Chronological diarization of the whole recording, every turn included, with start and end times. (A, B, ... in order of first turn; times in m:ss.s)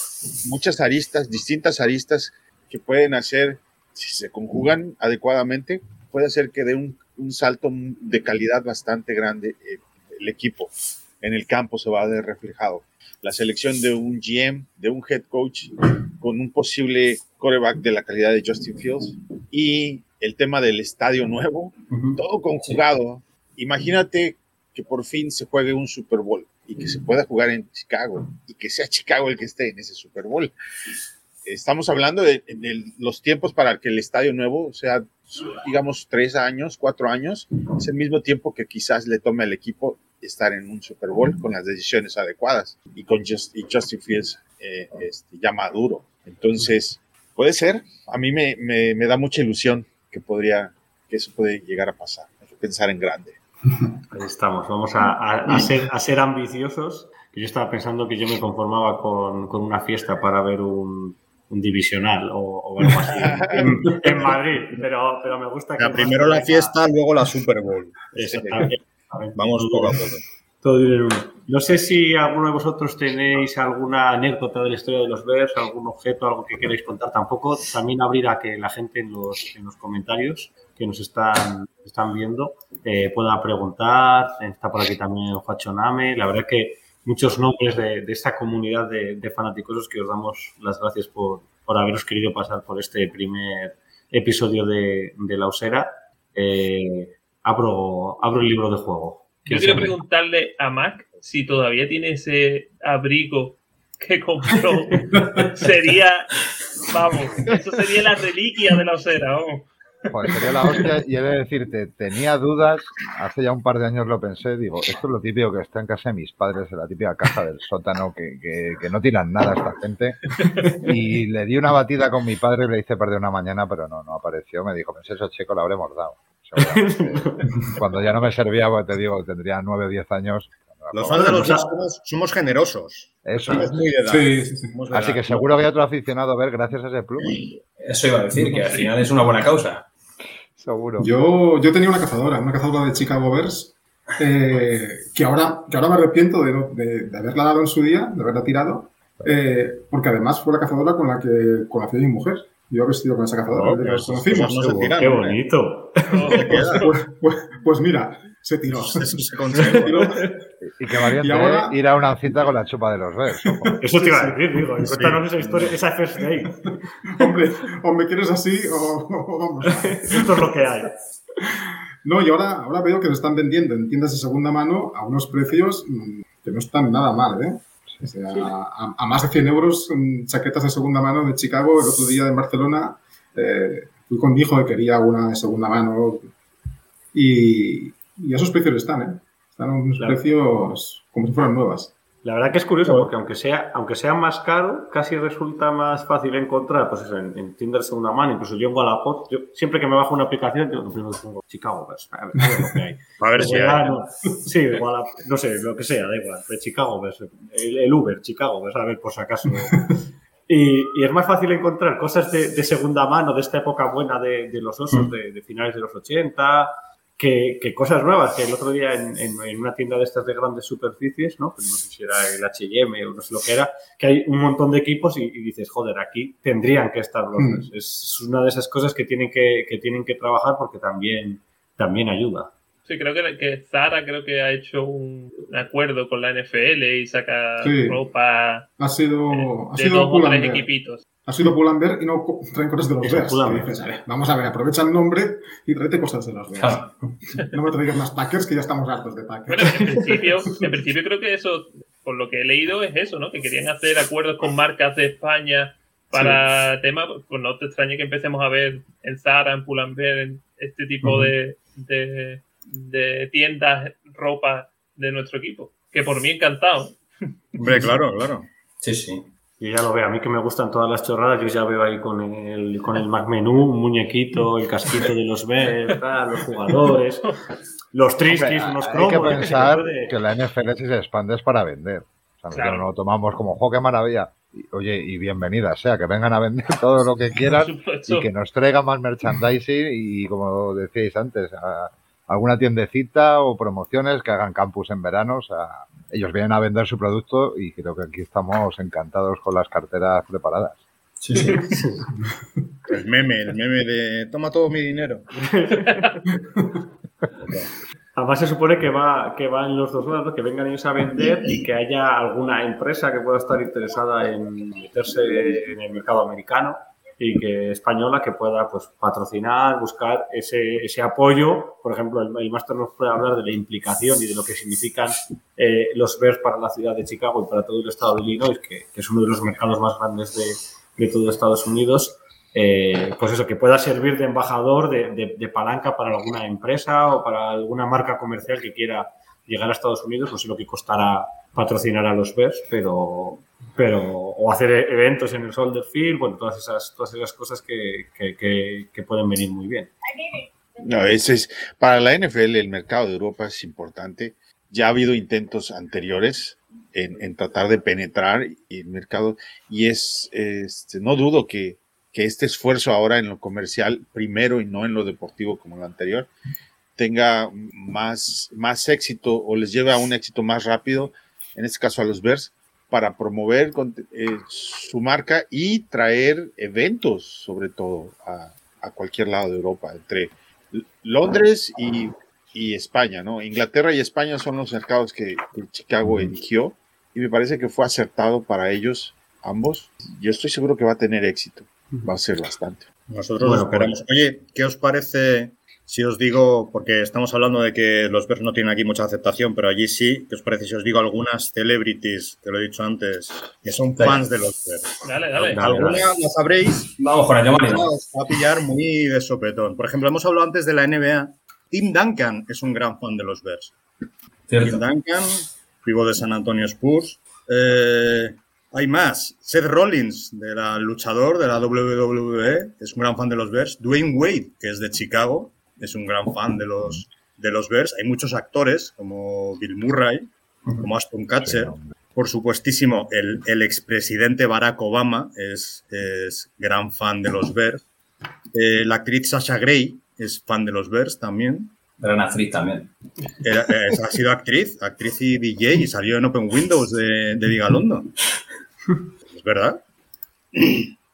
0:00.4-0:30.5 A
0:31.4-0:53.4 A
0:54.1-1:06.8 B
1:03.1-1:04.3 A
1:05.8-1:08.7 C
1:08.1-1:10.0 B
1:09.3-1:10.2 C
1:10.6-1:40.0 B
1:39.5-1:46.3 D
1:45.1-1:45.4 E
1:46.9-1:49.7 D
1:50.1-2:11.6 F
2:06.6-2:07.6 B
2:10.9-2:15.5 C
2:11.2-2:11.6 B
2:13.2-2:13.8 F
2:14.0-2:14.8 E
2:14.9-2:17.4 F
2:17.8-2:19.8 G
2:20.6-2:21.1 F
2:21.0-2:35.0 E
2:33.5-2:35.4 C
2:34.9-2:36.3 B
2:36.1-2:36.9 D
2:36.2-2:40.4 E
2:36.3-2:36.8 C
2:38.8-2:40.1 C
2:40.6-2:43.7 F
2:41.0-2:41.8 E
2:43.4-2:45.1 E
2:43.8-2:46.7 B
2:44.8-2:45.2 C
2:46.4-2:50.7 E
2:49.7-2:50.9 B
2:52.0-3:06.3 E
3:07.1-3:11.9 E
3:10.0-3:10.3 B
3:12.2-3:29.9 B
3:12.8-3:13.1 C
3:23.2-3:24.0 C
3:30.5-3:52.5 B
3:47.4-3:47.7 E
3:52.8-3:58.7 D
3:57.6-3:58.0 E
3:58.8-4:00.7 E
3:59.3-4:01.0 D
4:01.2-4:10.6 E
4:03.0-4:03.7 B
4:06.6-4:07.0 G
4:09.5-4:27.0 D
4:16.1-4:16.4 E
4:27.6-4:28.5 C
4:28.8-4:29.3 G
4:29.6-4:37.3 B
4:37.9-4:40.1 B
4:38.3-5:00.8 F
4:42.5-4:42.9 D
4:47.5-4:48.3 D
5:01.2-5:01.8 G
5:02.9-5:05.3 C
5:05.3-5:06.2 B
5:07.4-5:07.7 C
5:08.2-5:49.9 B
5:50.8-6:06.3 A
6:07.0-6:32.8 A
6:33.1-6:53.7 C
6:33.4-6:33.9 B
6:44.0-6:44.2 G
6:45.0-6:45.6 D
6:45.4-6:46.1 B
6:47.0-6:47.9 G
6:54.5-6:54.8 G
6:54.6-7:17.8 C
7:11.4-7:11.8 F
7:18.5-7:21.7 C
7:22.0-7:22.9 G
7:23.4-7:28.1 C
7:29.3-7:29.8 C
7:30.5-7:30.9 C